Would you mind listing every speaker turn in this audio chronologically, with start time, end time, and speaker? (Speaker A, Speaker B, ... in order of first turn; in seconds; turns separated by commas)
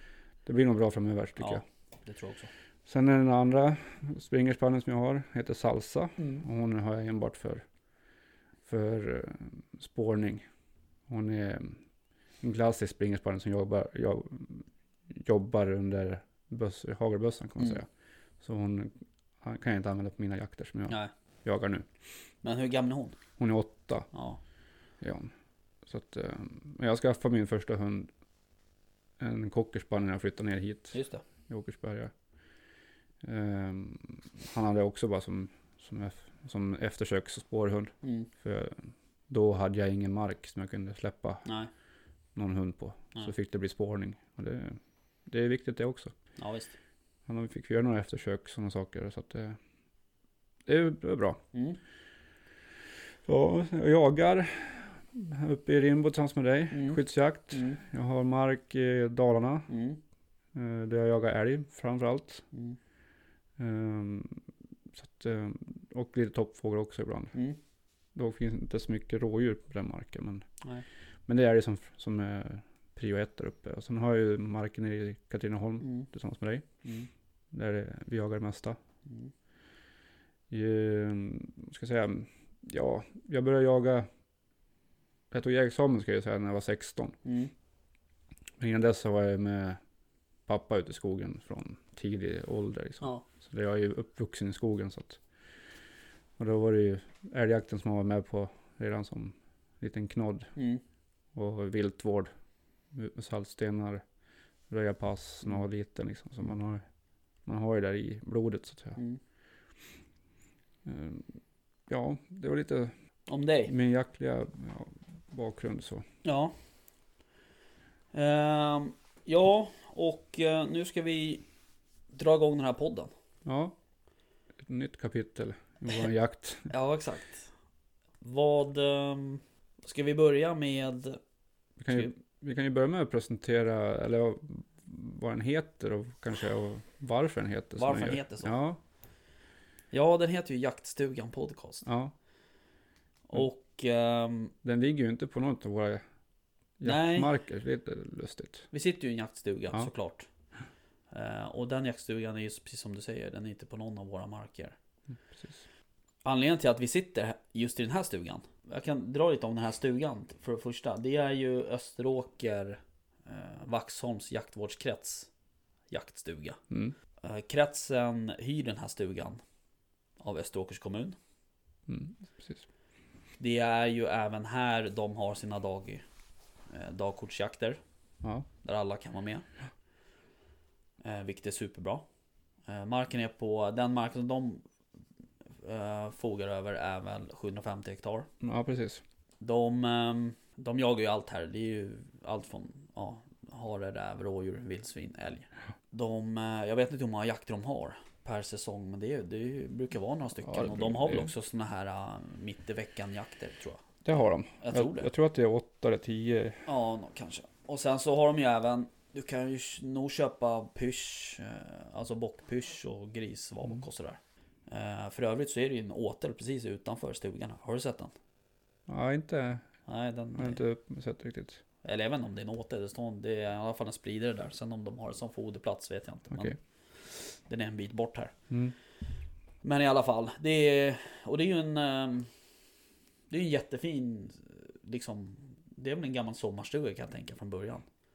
Speaker A: 0.5-1.6, Speaker B: 1.4-2.5, Speaker A: 2.9-7.6, Speaker A: 8.7-10.4, Speaker A: 11.1-11.8, Speaker A: 12.4-17.9, Speaker A: 18.4-21.9, Speaker B: 22.4-23.2, Speaker A: 23.4-24.1, Speaker B: 24.1-24.4, Speaker A: 25.0-25.3, Speaker A: 25.9-28.1, Speaker A: 29.2-31.0, Speaker B: 30.9-31.2, Speaker A: 31.5-32.1, Speaker A: 33.2-41.5, Speaker B: 38.0-38.3, Speaker B: 41.5-41.7, Speaker A: 42.4-46.1, Speaker B: 46.4-46.8, Speaker A: 47.3-49.6, Speaker A: 50.7-51.4, Speaker B: 51.5-51.8, Speaker A: 53.3-59.7, Speaker B: 56.7-57.0, Speaker B: 57.5-57.8, Speaker B: 59.7-60.0, Speaker A: 60.5-62.5, Speaker A: 63.6-64.4, Speaker A: 64.9-67.3, Speaker A: 68.2-70.5, Speaker A: 71.3-76.7, Speaker B: 75.8-76.1, Speaker B: 76.8-77.1, Speaker A: 77.5-78.8, Speaker A: 80.5-84.1, Speaker A: 85.3-87.2, Speaker B: 87.2-87.5, Speaker A: 88.6-89.8, Speaker A: 90.5-95.2, Speaker A: 96.4-100.5, Speaker B: 100.6-100.8, Speaker A: 101.3-102.3, Speaker A: 102.9-104.0, Speaker A: 104.7-106.8, Speaker A: 107.5-109.0, Speaker A: 110.8-111.3, Speaker A: 111.9-112.9, Speaker B: 113.3-113.7, Speaker A: 113.7-116.0, Speaker B: 116.2-116.5, Speaker B: 118.1-121.4, Speaker B: 122.1-123.1, Speaker A: 123.5-123.8, Speaker A: 124.6-126.7, Speaker B: 126.7-127.5, Speaker B: 128.2-131.2, Speaker A: 131.8-138.8, Speaker B: 137.8-138.6, Speaker B: 139.9-141.9, Speaker A: 141.8-142.1, Speaker B: 143.3-144.5, Speaker A: 144.6-146.0, Speaker A: 146.8-148.7, Speaker B: 146.8-147.3, Speaker B: 148.7-150.3, Speaker B: 151.1-154.8, Speaker A: 155.3-155.6, Speaker B: 156.2-165.3, Speaker B: 165.9-166.6, Speaker A: 166.7-166.9, Speaker B: 167.2-169.4, Speaker B: 170.2-171.2, Speaker A: 171.9-172.7, Speaker B: 173.4-176.0, Speaker B: 176.7-177.8, Speaker B: 178.6-179.5, Speaker B: 181.0-182.1, Speaker B: 182.7-184.6, Speaker B: 185.6-188.3, Speaker A: 188.4-189.0, Speaker B: 189.4-203.8, Speaker A: 200.4-201.3, Speaker A: 204.1-206.7, Speaker B: 204.6-205.1, Speaker B: 206.7-218.1, Speaker A: 218.9-219.7, Speaker B: 219.9-220.6, Speaker A: 220.3-221.6, Speaker B: 221.8-228.3, Speaker A: 228.5-228.8, Speaker B: 229.6-232.3, Speaker B: 233.3-237.9